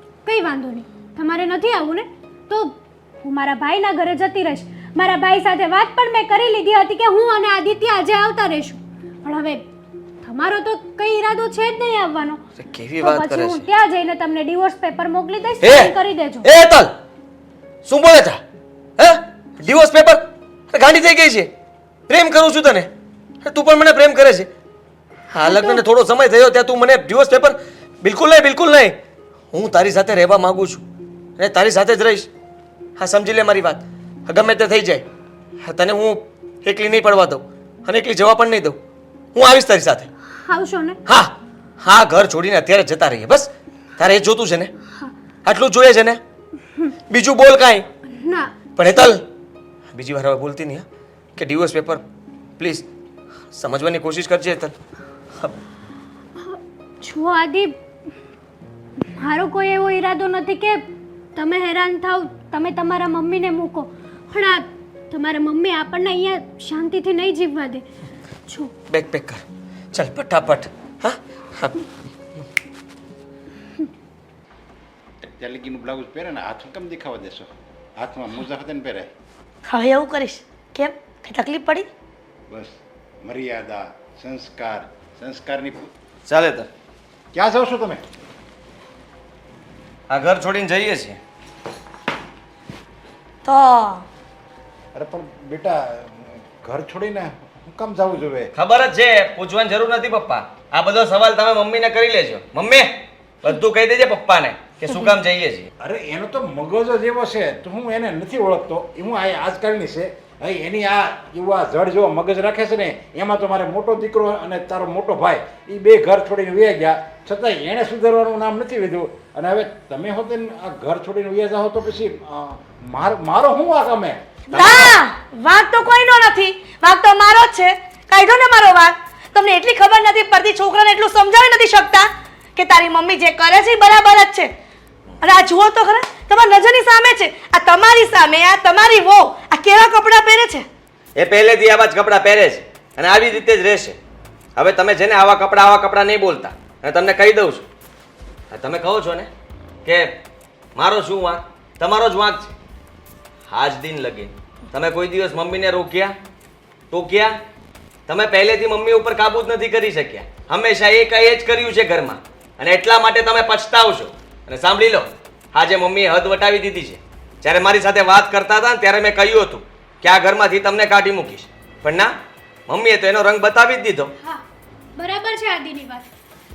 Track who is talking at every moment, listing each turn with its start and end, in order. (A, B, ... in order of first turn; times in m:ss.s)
0:00.2-0:09.7 A
0:10.2-0:12.4 A
0:12.6-0:13.7 B
0:13.0-0:16.5 A
0:15.6-0:16.9 B
0:17.8-0:18.4 B
0:19.0-0:21.5 B
0:22.1-0:22.9 B
0:23.4-0:24.5 B
0:25.3-0:29.0 B
0:25.5-0:25.8 A
0:29.5-0:30.8 B
0:31.4-0:32.3 B
0:33.0-0:35.0 B
0:35.6-0:38.8 B
0:39.4-0:40.1 B
0:40.4-0:41.0 A
0:41.1-0:44.7 B
0:45.4-0:46.2 B
0:47.1-0:47.9 B
0:48.1-0:48.6 A
0:48.8-0:49.2 B
0:49.9-0:50.8 B
0:51.4-0:52.0 B
0:52.6-0:52.9 B
0:53.5-0:54.8 B
0:56.4-0:57.8 A
0:59.2-1:00.8 A
1:01.4-1:07.8 A
1:08.5-1:08.7 A
1:08.9-1:11.8 B
1:15.2-1:19.1 C
1:19.7-1:21.9 D
1:22.5-1:25.9 C
1:26.3-1:26.7 B
1:27.3-1:28.0 C
1:30.1-1:31.2 B
1:33.4-1:34.1 D
1:34.9-1:38.5 C
1:38.6-1:45.7 B
1:45.8-2:05.0 C
2:04.5-2:14.5 D
2:15.2-2:20.7 D
2:21.2-2:24.0 B
2:24.6-2:27.7 B
2:28.5-2:29.3 B
2:29.8-2:30.1 B
2:30.8-2:32.5 B
2:33.5-2:36.1 B
2:36.9-2:37.4 B
2:38.1-2:52.1 B
2:52.7-2:54.1 B
2:55.0-2:56.1 A